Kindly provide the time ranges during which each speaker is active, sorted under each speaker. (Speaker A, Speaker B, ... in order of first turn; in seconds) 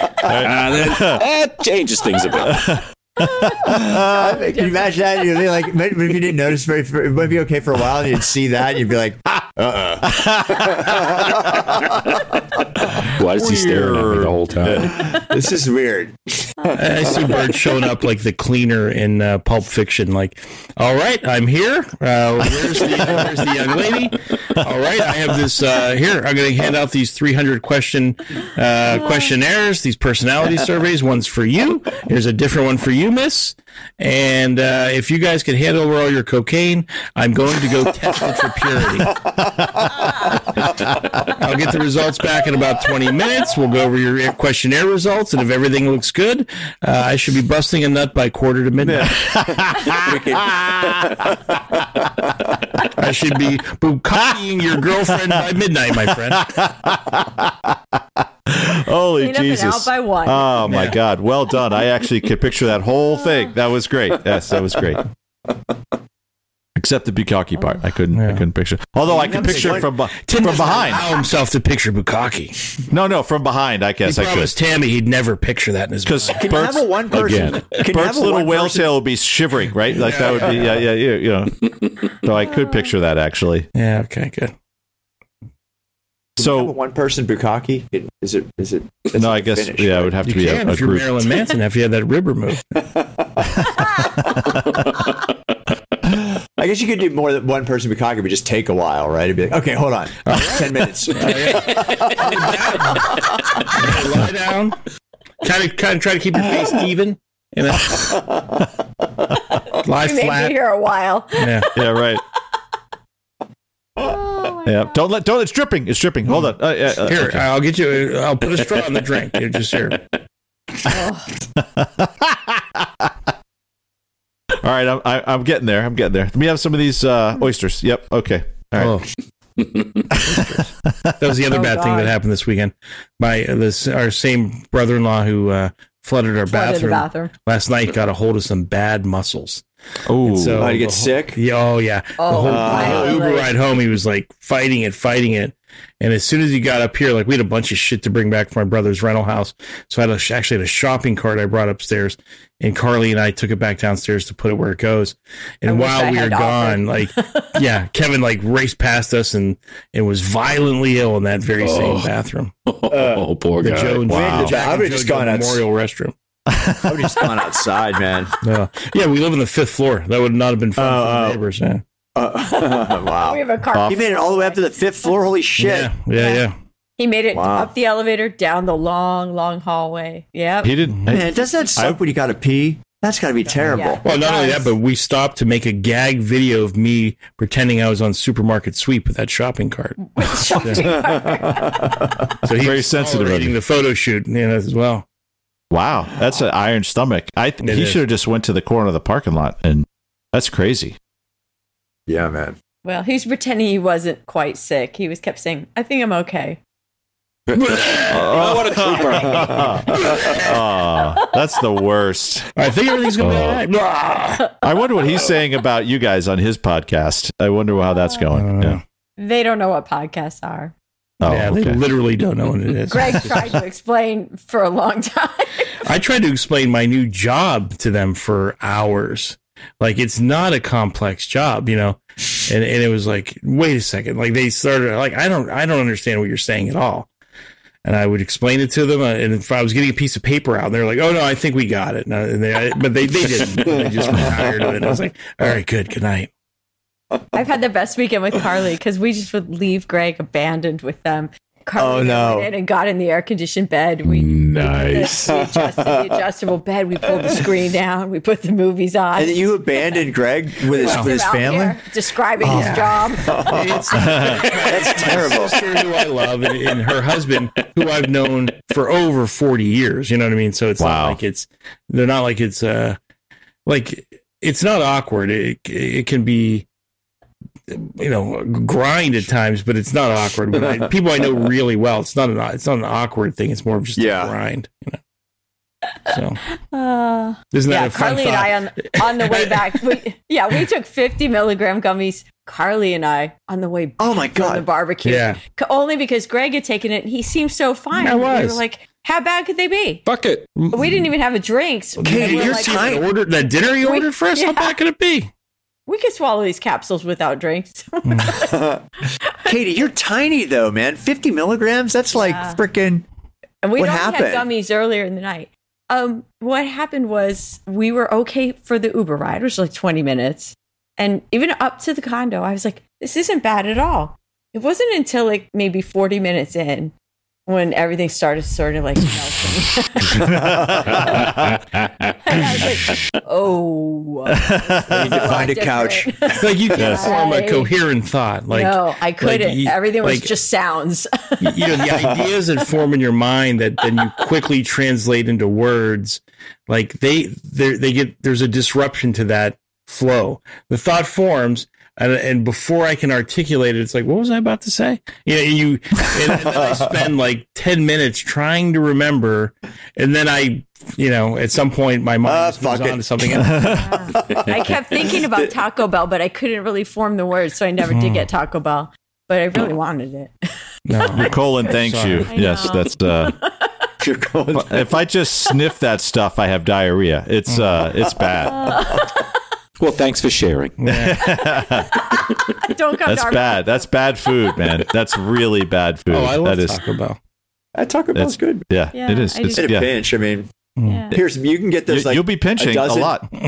Speaker A: 0.2-1.2, 2.5-4.1, 10.1-11.2, 13.2-14.9, 48.8-51.4, 56.1-65.0, 66.8-71.2, 72.9-74.5, 76.0-76.9, 77.7-83.7, 86.4-86.7, 89.1-91.2, 111.7-112.2, 114.6-117.4, 121.6-123.1, 124.6-129.0, 130.1-130.4, 140.1-140.7, 166.5-167.2, 173.7-174.0, 180.6-182.0, 192.6-193.5, 195.7-200.9, 208.1-212.5, 213.2-213.6, 214.6-218.8, 221.2-221.8, 263.9-264.4, 270.8-271.2, 330.2-331.6, 334.2-335.5, 336.7-337.1, 363.3-364.1, 371.1-373.4, 374.5-378.8, 380.9-382.0, 383.0-386.8, 388.1-389.9, 391.9-393.3
Speaker B: 0.3-2.8, 13.1-15.0, 77.1-77.8, 101.6-102.2, 129.6-130.1, 161.6-162.1, 162.7-164.5, 207.5-209.8, 213.2-213.5, 254.1-255.2, 300.0-300.6, 330.9-332.2, 379.8-380.8
Speaker C: 3.2-4.9, 16.6-17.2, 29.0-29.3, 59.2-60.6, 63.2-63.5, 82.6-82.8, 110.0-111.8, 114.0-115.0, 120.8-121.3, 131.5-132.1, 136.5-137.3, 142.2-143.5, 155.7-157.6, 172.5-175.2, 176.1-176.4, 177.0-180.8, 183.6-184.7, 190.0-192.0, 202.8-206.6, 210.5-211.3, 214.4-215.2, 219.2-220.7, 222.9-225.8, 247.3-264.3, 286.7-300.0, 300.7-303.0, 303.8-304.8, 305.9-308.7, 309.3-309.5, 312.1-312.6, 313.6-326.9, 327.4-331.3, 332.2-337.7, 338.5-341.9, 363.7-370.3, 370.9-373.7, 378.5-379.1, 382.6-383.9, 388.9-389.8, 390.9-391.2
Speaker D: 3.6-11.7, 14.9-16.8, 49.9-51.3, 69.0-69.9, 76.4-78.9, 86.4-90.2, 92.9-93.2, 96.6-101.4, 140.6-141.4, 142.4-143.2, 162.9-163.3, 164.1-165.6, 166.8-168.3, 170.8-171.4, 172.2-175.9, 177.3-177.7, 181.1-184.0, 190.8-192.2, 202.1-202.5, 251.8-252.5, 255.2-255.9, 259.1-261.8, 262.4-263.7, 264.5-265.6, 284.0-284.3, 294.0-294.6, 302.0-303.0, 308.5-308.8, 309.4-313.0, 313.8-314.4, 334.9-336.5, 362.2-363.4, 364.1-365.5, 374.0-374.9, 387.7-388.7, 389.5-390.5, 391.1-393.1
Speaker E: 16.7-39.2, 41.4-49.2, 53.0-56.5, 60.6-61.0, 68.1-68.4, 69.3-72.6, 74.0-76.5, 79.9-80.8, 83.7-84.5, 90.2-92.6, 100.2-104.8, 105.4-108.3, 109.8-110.5, 111.4-111.7, 117.0-120.0, 128.8-129.0, 130.2-139.6, 140.2-162.5, 163.6-166.1, 168.4-171.8, 175.6-176.5, 184.0-190.0, 190.6-190.9, 192.4-195.0, 197.6-198.0, 210.0-210.5, 212.6-214.5, 218.3-218.8, 221.2-223.5, 225.8-237.1, 237.8-246.3, 260.8-261.1, 262.4-273.0, 273.6-276.6, 277.7-285.0, 286.1-286.4, 287.5-289.8, 295.0-295.4, 297.9-298.6, 300.6-301.0, 302.0-305.3, 308.0-308.4, 336.4-340.3, 341.4-363.8, 367.8-368.3, 370.9-372.3, 377.5-377.8, 380.8-381.2, 386.1-387.2, 390.8-391.1